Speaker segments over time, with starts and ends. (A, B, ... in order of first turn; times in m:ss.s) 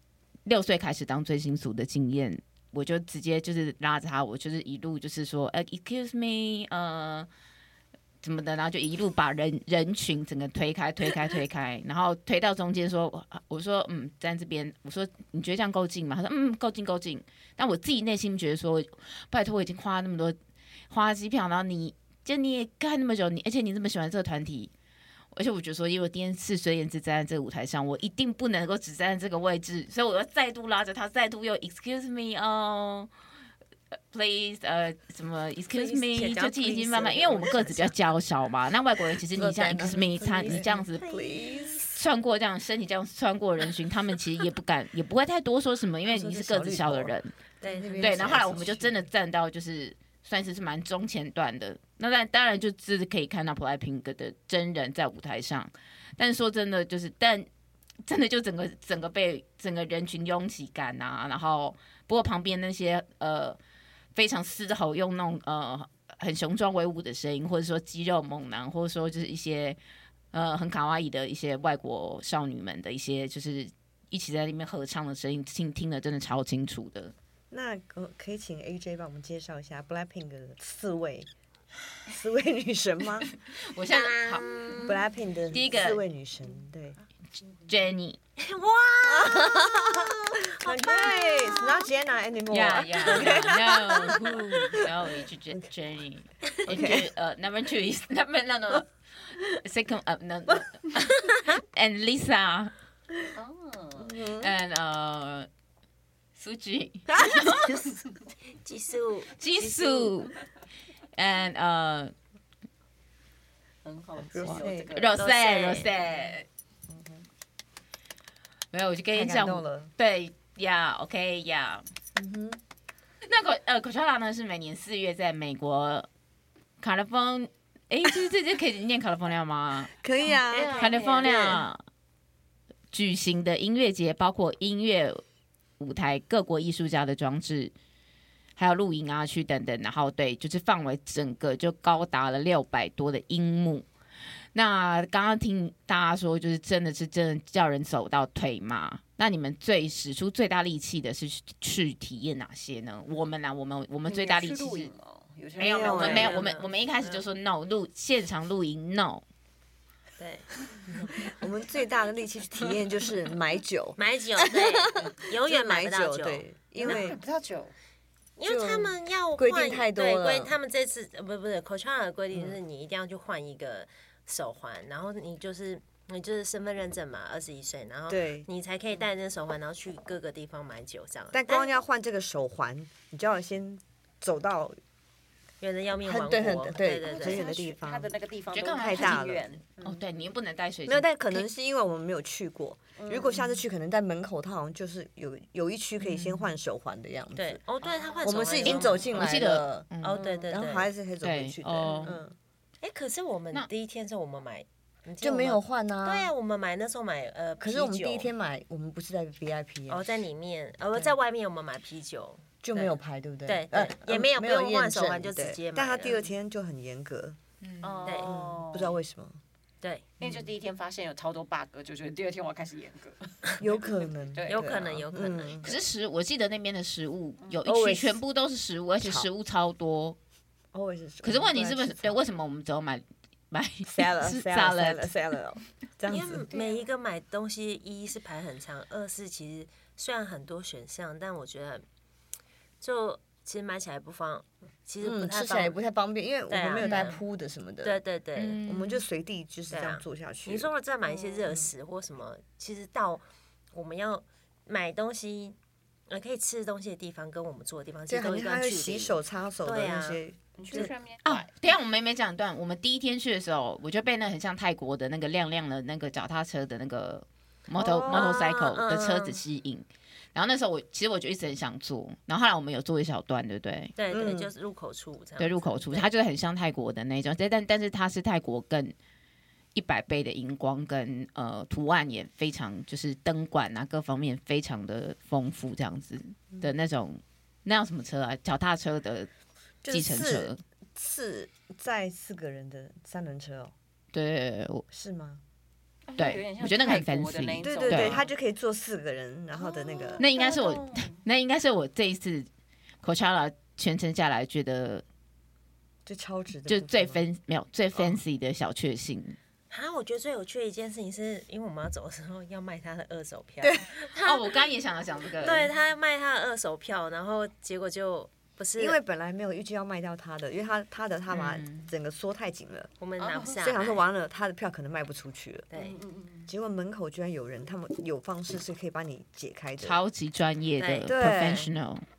0:00.4-0:07.3 A
0:08.2-0:20.4 A
0:20.9-0:24.7 A
0:25.3-0:33.1 A
0:34.1-0:41.0 A
0:35.7-0:38.0 B
0:39.3-0:41.8 C
0:41.0-0:42.0 B
0:41.9-0:47.3 A
0:46.0-0:49.0 C
0:47.6-0:48.2 B
0:48.0-0:57.5 A
0:58.0-1:03.6 A
1:04.1-1:09.8 A
1:10.3-1:17.1 A
1:17.5-1:21.3 C
1:22.1-1:23.3 C
1:23.6-1:24.8 A
1:23.9-1:25.0 B
1:24.8-1:27.0 C
1:25.5-1:26.0 A
1:27.7-1:28.2 A
1:28.4-1:31.8 B
1:29.0-1:35.6 C
1:32.5-1:42.7 A
1:36.6-1:37.1 C
1:43.3-1:44.2 D
1:44.0-1:44.5 C
1:44.4-1:45.5 A
1:46.4-1:47.8 A
1:48.6-1:50.1 B
1:49.4-1:50.3 A
1:51.2-1:52.1 A
1:53.8-1:55.2 D
1:54.3-1:54.9 C
1:54.4-1:56.4 A
1:55.2-1:55.9 B
1:56.9-1:57.2 C
1:58.7-2:01.8 A
1:59.1-1:59.9 C
2:02.1-2:02.6 C
2:03.2-2:06.1 A
2:06.8-2:09.9 A
2:10.0-2:11.6 C
2:10.2-2:11.6 D
2:10.6-2:11.0 B
2:10.8-2:11.8 A
2:12.9-2:15.2 A
2:15.8-2:17.7 A
2:18.6-2:23.8 A
2:24.5-2:34.9 A
2:34.0-2:36.5 D
2:35.6-2:39.2 A
2:35.6-2:36.4 C
2:35.9-2:37.2 B
2:40.2-2:41.2 B
2:41.2-2:47.2 C
2:44.0-2:47.0 B
2:46.8-2:47.7 D
2:48.4-3:01.8 B
2:48.4-2:50.5 C
2:52.3-2:52.6 C
2:58.1-2:58.5 C
3:01.3-3:04.8 C
3:05.6-3:07.5 B
3:06.0-3:08.1 C
3:07.0-3:10.0 D
3:08.5-3:09.2 A
3:08.7-3:09.5 C
3:09.8-3:11.4 A
3:10.8-3:17.6 C
3:13.0-3:13.6 D
3:16.0-3:16.6 A
3:17.3-3:19.2 B
3:17.8-3:19.0 D
3:18.2-3:19.9 C
3:18.7-3:20.2 A
3:20.0-3:20.9 B
3:20.1-3:20.5 D
3:20.5-3:22.3 C
3:21.2-3:22.2 A
3:22.8-3:28.3 B
3:25.2-3:26.3 C
3:27.6-3:30.1 C
3:29.9-3:36.3 B
3:32.6-3:37.4 C
3:37.6-3:38.2 A
3:37.8-3:39.0 D
3:38.0-3:38.3 B
3:38.2-3:39.4 C
3:40.2-3:45.0 D
3:43.6-3:45.7 C
3:44.5-3:45.6 B
3:45.6-3:50.2 A
3:47.6-3:48.2 C
3:49.0-3:49.3 C
3:50.7-3:52.2 C
3:51.2-3:55.1 A
3:53.8-3:56.5 C
3:56.1-4:01.8 B
3:56.5-3:56.9 D
4:02.8-4:05.8 B
4:05.0-4:08.0 C
4:06.5-4:07.2 B
4:06.8-4:07.1 A
4:07.8-4:08.6 B
4:08.4-4:09.0 A
4:08.6-4:10.7 C
4:09.7-4:15.6 B
4:11.4-4:11.7 C
4:16.1-4:20.2 B
4:18.1-4:20.9 C
4:20.6-4:21.5 D
4:21.2-4:33.9 A
4:27.8-4:28.4 C
4:28.0-4:29.4 B
4:34.0-4:36.1 B
4:34.1-4:34.5 C
4:35.4-4:38.9 A
4:39.7-4:49.3 A
4:49.8-4:53.7 C
4:49.9-4:50.6 A
4:54.1-4:54.8 A
4:54.9-4:55.4 C
4:56.1-4:58.3 D
4:56.2-4:58.2 A
4:57.6-5:00.2 C
4:59.6-5:01.2 D
5:00.2-5:02.5 A
5:03.0-5:05.0 A
5:06.0-5:07.2 C
5:06.7-5:09.4 A
5:09.7-5:14.4 B
5:14.2-5:15.7 A
5:15.4-5:19.0 B
5:18.8-5:22.9 C
5:21.3-5:21.9 A
5:23.0-5:24.0 B
5:23.2-5:23.6 D
5:23.5-5:25.7 C
5:25.7-5:26.0 B
5:25.7-5:26.5 D
5:26.4-5:30.0 C
5:29.8-5:32.0 A
5:30.8-5:31.1 B
5:31.1-5:31.7 C